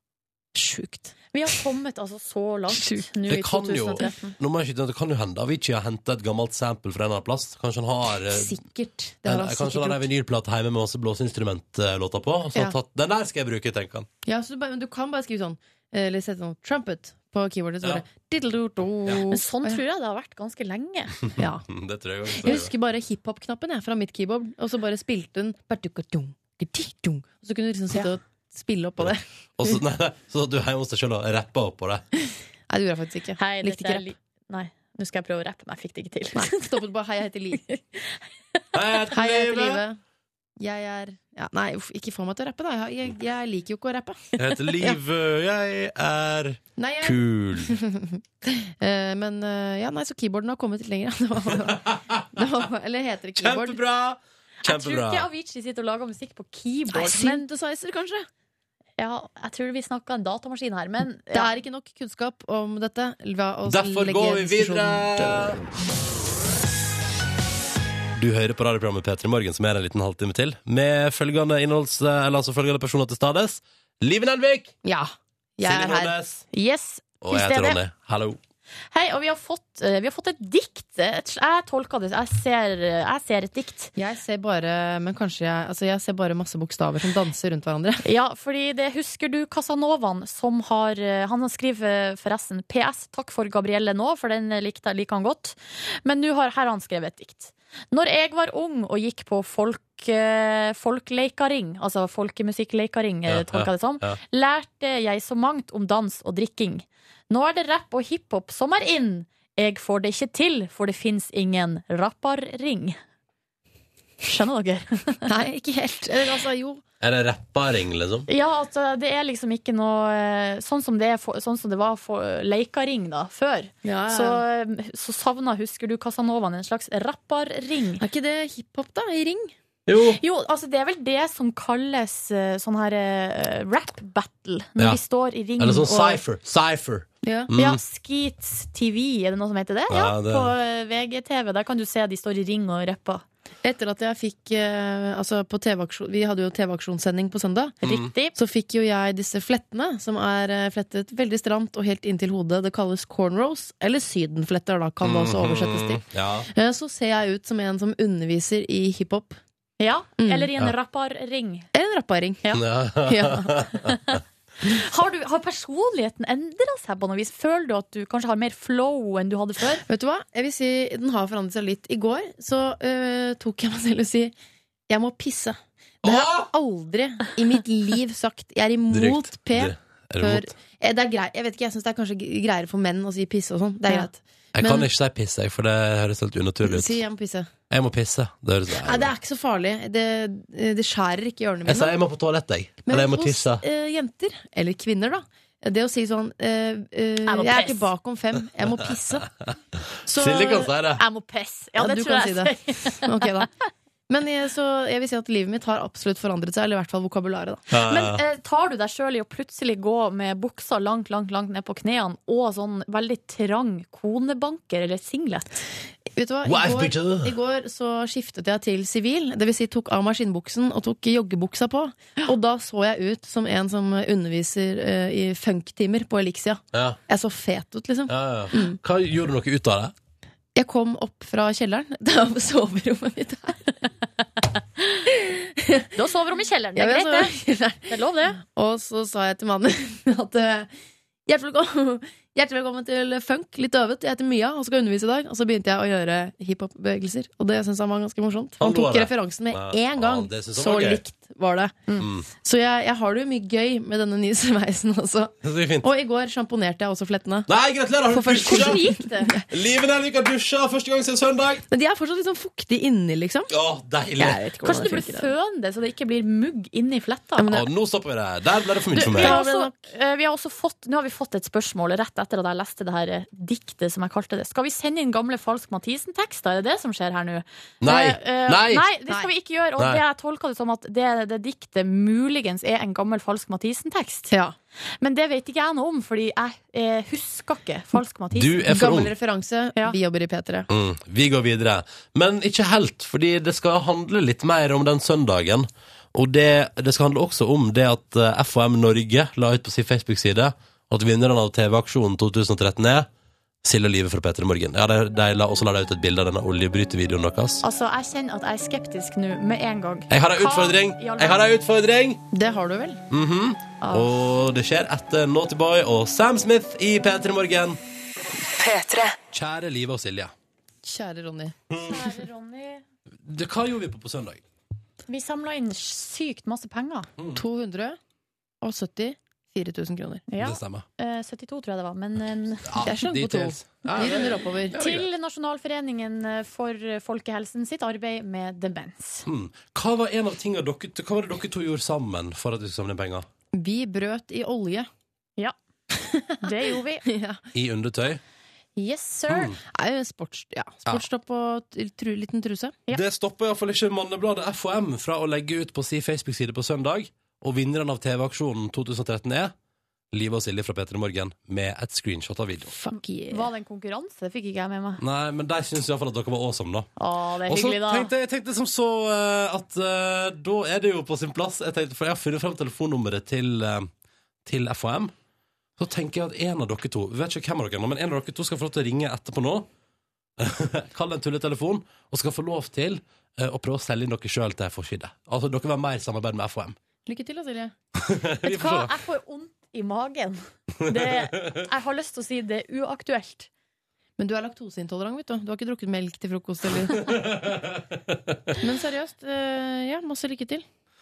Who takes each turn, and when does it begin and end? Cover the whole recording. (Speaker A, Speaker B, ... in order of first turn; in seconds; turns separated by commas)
Speaker A: 0.5-1.1, Speaker B: 1.3-4.3, Speaker C: 3.3-8.6, Speaker A: 8.3-10.1, Speaker C: 9.2-14.1, Speaker A: 14.2-19.8, Speaker B: 19.3-21.1, Speaker A: 21.4-21.6, Speaker C: 21.7-22.7, Speaker A: 22.4-29.8, Speaker C: 29.6-32.0, Speaker A: 32.7-34.1, Speaker B: 33.4-36.7, Speaker A: 36.3-37.6, Speaker B: 37.7-38.2, Speaker C: 38.7-39.8, Speaker A: 39.1-40.0, Speaker A: 40.6-45.0, Speaker C: 44.4-47.7, Speaker A: 46.8-53.8, Speaker C: 51.9-52.2, Speaker C: 53.4-55.3, Speaker B: 54.6-57.4, Speaker A: 56.9-58.3, Speaker B: 59.0-61.5, Speaker A: 61.3-65.6, Speaker C: 63.7-65.6, Speaker C: 68.2-74.7, Speaker A: 74.8-76.1, Speaker C: 75.6-76.4, Speaker B: 76.5-77.8, Speaker C: 77.2-78.4, Speaker B: 78.9-83.9, Speaker A: 84.0-88.0, Speaker B: 88.0-113.0, Speaker C: 103.3-104.2, Speaker B: 114.2-115.3, Speaker A: 115.2-116.8, Speaker C: 117.0-118.3, Speaker B: 118.3-128.0, Speaker A: 123.8-124.4, Speaker A: 128.0-129.5, Speaker C: 129.9-130.2, Speaker B: 130.2-136.2, Speaker C: 135.6-137.8, Speaker A: 137.2-137.5, Speaker B: 137.6-143.2, Speaker C: 139.9-140.5, Speaker A: 143.6-147.7, Speaker B: 147.8-148.3, Speaker A: 148.3-159.4, Speaker C: 155.0-156.5, Speaker B: 159.8-161.7, Speaker A: 160.2-160.5, Speaker A: 161.7-162.4, Speaker C: 162.6-163.9, Speaker A: 163.0-163.7, Speaker B: 163.8-169.8, Speaker A: 169.7-174.3, Speaker A: 174.9-184.9, Speaker C: 176.0-176.5, Speaker C: 178.9-180.5, Speaker C: 184.6-187.0, Speaker A: 186.6-187.5, Speaker C: 187.7-189.1, Speaker A: 188.8-191.9, Speaker C: 191.7-193.6, Speaker A: 192.8-199.3, Speaker B: 197.2-197.9, Speaker A: 200.1-200.7, Speaker C: 200.2-201.0, Speaker B: 201.0-203.4, Speaker A: 201.8-203.5, Speaker A: 204.1-207.6, Speaker C: 207.7-208.2, Speaker B: 207.8-215.6, Speaker A: 216.1-228.8, Speaker C: 216.4-217.3, Speaker C: 228.1-229.9, Speaker A: 230.5-233.7, Speaker A: 235.1-235.9, Speaker B: 235.9-237.3, Speaker A: 236.8-240.7, Speaker B: 237.9-238.4, Speaker A: 241.2-257.5, Speaker C: 248.6-251.0, Speaker C: 252.0-252.2, Speaker C: 255.4-255.9, Speaker C: 257.5-258.8, Speaker A: 258.1-259.5, Speaker B: 258.4-259.3, Speaker C: 259.5-261.6, Speaker A: 261.7-263.5, Speaker C: 263.5-264.8, Speaker A: 264.2-265.3, Speaker B: 264.6-267.5, Speaker A: 267.4-267.7, Speaker C: 267.5-269.4, Speaker B: 268.9-284.3, Speaker A: 269.0-269.8, Speaker C: 277.8-278.8, Speaker A: 284.3-284.6, Speaker B: 285.0-288.7, Speaker C: 288.3-289.1, Speaker A: 288.7-290.7, Speaker C: 290.7-303.1, Speaker C: 303.6-307.6, Speaker B: 307.6-311.5, Speaker C: 310.1-312.2, Speaker A: 312.3-313.0, Speaker C: 313.1-317.8, Speaker C: 319.3-320.3, Speaker A: 320.8-321.5, Speaker C: 321.7-322.0, Speaker B: 321.8-322.8, Speaker C: 323.2-324.4, Speaker B: 325.1-327.1, Speaker A: 327.3-328.0, Speaker A: 328.6-330.2, Speaker B: 330.3-332.8, Speaker C: 330.4-330.8, Speaker C: 332.7-335.1, Speaker A: 332.8-334.7, Speaker B: 334.7-339.2, Speaker C: 339.2-343.2, Speaker A: 343.5-344.9, Speaker A: 346.0-346.5, Speaker B: 346.4-347.0, Speaker A: 347.0-347.4, Speaker C: 347.5-348.2, Speaker B: 348.8-349.5, Speaker C: 349.3-349.6, Speaker A: 349.7-352.8, Speaker C: 352.9-359.5, Speaker C: 360.1-362.7, Speaker A: 362.7-363.5, Speaker B: 362.9-365.0, Speaker C: 365.0-366.9, Speaker B: 367.0-368.1, Speaker C: 367.5-373.9, Speaker C: 374.4-375.1, Speaker C: 375.8-379.7, Speaker C: 380.4-386.8, Speaker A: 387.1-387.7, Speaker C: 388.0-388.9, Speaker B: 388.4-393.5, Speaker C: 390.8-391.5, Speaker A: 394.2-397.1, Speaker C: 396.9-398.5, Speaker A: 398.6-400.6